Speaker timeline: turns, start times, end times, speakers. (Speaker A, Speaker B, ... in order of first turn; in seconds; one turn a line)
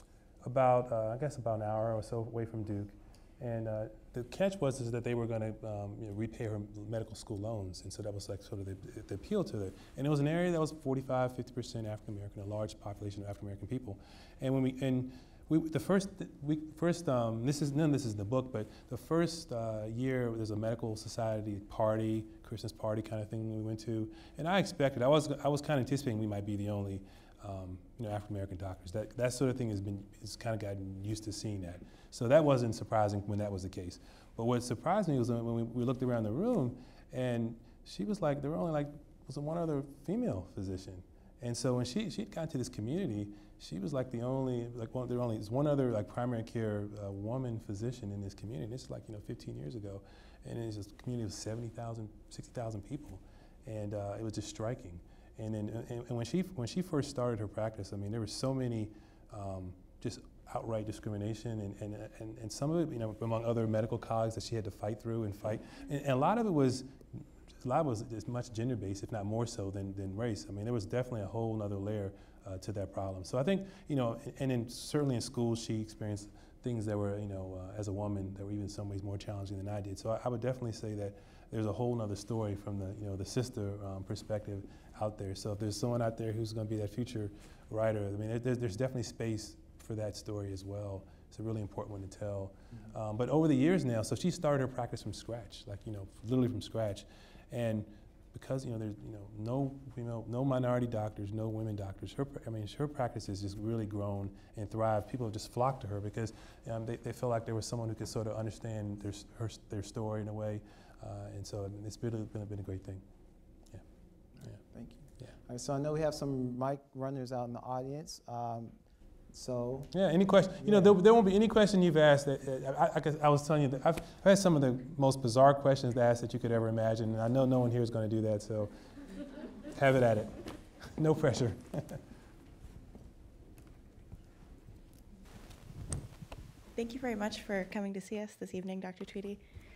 Speaker A: 0.4-113.0
Speaker B: 114.6-118.8
Speaker B: 119.3-119.9
Speaker A: 119.9-128.7
Speaker B: 120.6-121.0
Speaker A: 129.7-130.4
Speaker A: 130.9-132.0
Speaker C: 136.8-139.4